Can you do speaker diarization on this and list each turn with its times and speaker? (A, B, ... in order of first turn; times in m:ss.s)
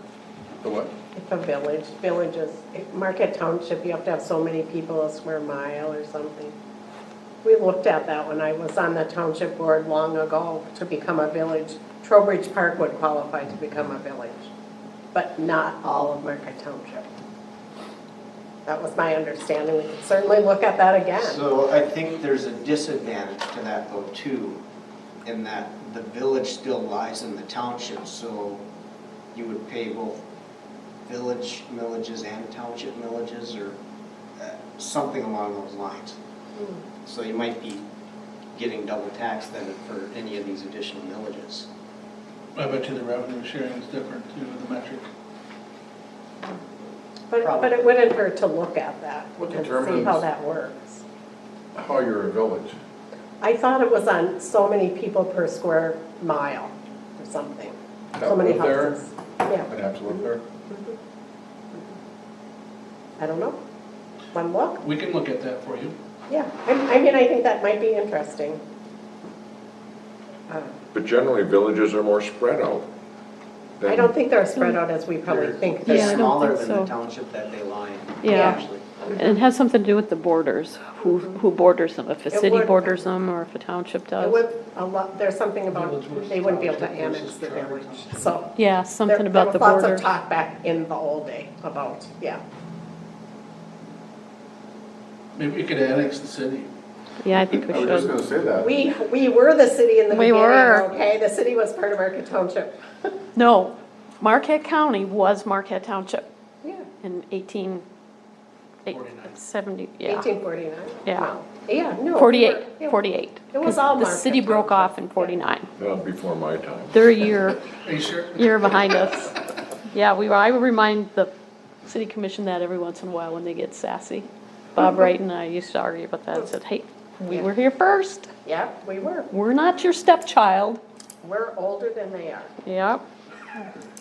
0:00.6-0:00.9 A
0:01.1-0:06.5 B
0:07.4-0:14.5 B
0:15.1-0:17.0 B
0:18.6-0:21.4 B
0:21.1-0:24.6 C
0:25.2-0:28.6 C
0:29.3-0:30.2 C
0:31.0-0:33.8 C
0:34.4-0:36.2 C
0:36.6-0:36.9 B
0:37.0-0:37.8 C
0:38.5-0:41.7 C
0:42.5-0:45.1 D
0:47.3-0:51.0 B
0:47.4-0:47.9 C
0:49.4-0:50.2 A
0:51.7-0:52.8 A
0:53.4-0:59.7 B
0:58.1-0:59.0 A
0:59.7-1:00.4 A
1:00.7-1:00.9 B
1:03.2-1:03.6 B
1:04.3-1:04.8 B
1:04.8-1:06.0 D
1:06.3-1:08.6 B
1:10.9-1:12.9 E
1:13.8-1:14.2 E
1:13.8-1:16.3 B
1:15.4-1:19.0 C
1:15.8-1:16.9 F
1:18.2-1:18.6 F
1:18.3-1:19.4 B
1:19.2-1:24.4 F
1:21.0-1:21.4 B
1:22.3-1:23.1 B
1:24.2-1:28.5 B
1:25.7-1:28.2 D
1:28.5-1:30.1 F
1:29.0-1:32.4 B
1:35.3-1:36.7 D
1:37.2-1:38.1 F
1:37.7-1:38.8 A
1:38.6-1:43.1 B
1:40.1-1:40.9 F
1:43.3-1:46.2 F
1:47.0-1:47.8 F
1:48.8-1:50.3 F
1:48.9-1:49.3 D
1:50.0-1:53.0 B
1:51.0-1:51.3 F
1:52.1-1:55.7 F
1:53.5-1:55.4 B
1:55.8-1:56.9 E
1:56.9-1:57.6 F
1:57.8-1:58.5 D
1:58.3-1:59.4 F
1:59.9-2:01.3 F
2:01.8-2:08.3 F
2:04.8-2:05.1 B
2:08.4-2:09.3 B
2:09.3-2:10.8 F
2:11.2-2:12.5 B
2:12.6-2:13.0 F